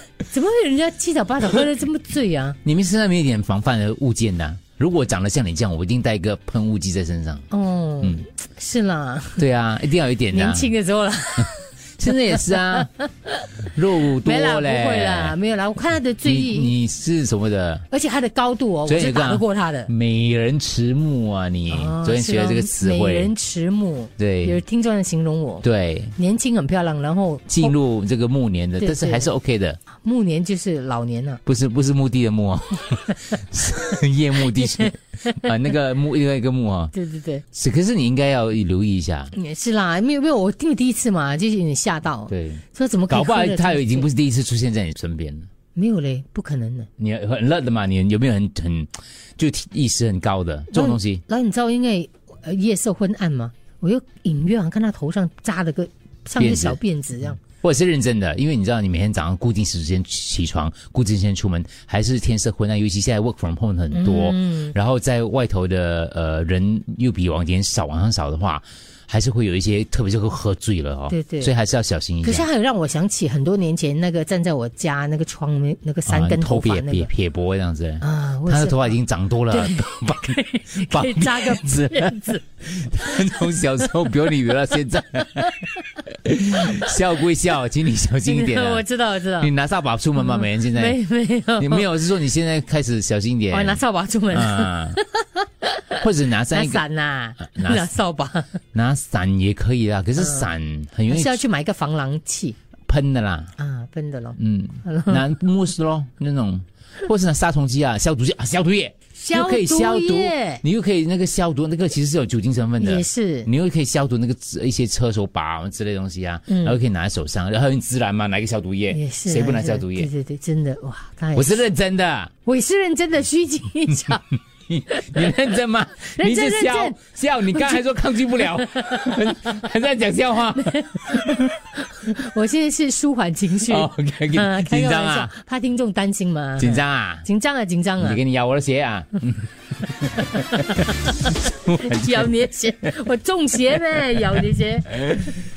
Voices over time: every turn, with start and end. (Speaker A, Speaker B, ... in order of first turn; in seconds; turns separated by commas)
Speaker A: 0.2-2.6, Speaker B: 2.6-7.5, Speaker A: 7.5-9.4, Speaker B: 9.4-10.7, Speaker A: 10.3-16.7, Speaker B: 11.4-12.9, Speaker B: 13.7-15.4, Speaker B: 16.2-17.8, Speaker A: 17.9-19.9, Speaker B: 18.9-23.3, Speaker A: 21.7-25.6, Speaker B: 24.2-24.6, Speaker B: 25.6-26.1, Speaker A: 26.1-27.7, Speaker B: 27.5-29.8, Speaker A: 28.8-29.3, Speaker A: 30.0-31.4, Speaker B: 31.4-36.9, Speaker A: 34.5-35.5, Speaker A: 36.9-37.4, Speaker B: 37.5-39.3, Speaker A: 39.3-44.1, Speaker B: 42.3-45.5, Speaker A: 45.7-46.9, Speaker B: 47.0-51.2, Speaker A: 50.7-57.4, Speaker B: 56.4-56.8, Speaker B: 57.4-72.5, Speaker A: 63.9-64.7, Speaker A: 71.1-71.5, Speaker A: 72.2-77.1, Speaker B: 76.1-91.0, Speaker A: 78.0-79.0, Speaker A: 79.5-82.4, Speaker A: 83.1-83.4, Speaker A: 85.4-85.9, Speaker A: 86.7-87.0, Speaker A: 88.2-89.5, Speaker A: 90.2-91.9, Speaker B: 91.6-95.0, Speaker A: 93.5-98.5, Speaker B: 96.0-96.8, Speaker B: 97.4-97.9, Speaker B: 98.7-101.4, Speaker A: 100.2-100.5, Speaker A: 101.1-102.6, Speaker B: 102.9-103.5, Speaker A: 103.6-105.2, Speaker B: 104.4-120.1, Speaker A: 109.2-110.6, Speaker A: 112.8-113.5, Speaker A: 116.5-116.8, Speaker A: 118.9-121.6, Speaker B: 121.3-122.3, Speaker A: 122.4-124.2, Speaker B: 124.7-131.6, Speaker A: 124.9-125.3, Speaker A: 126.0-127.0, Speaker A: 127.5-129.4, Speaker A: 130.5-138.2, Speaker B: 133.7-135.3, Speaker B: 136.6-137.2, Speaker B: 138.0-142.3, Speaker A: 140.1-145.0, Speaker B: 144.9-145.4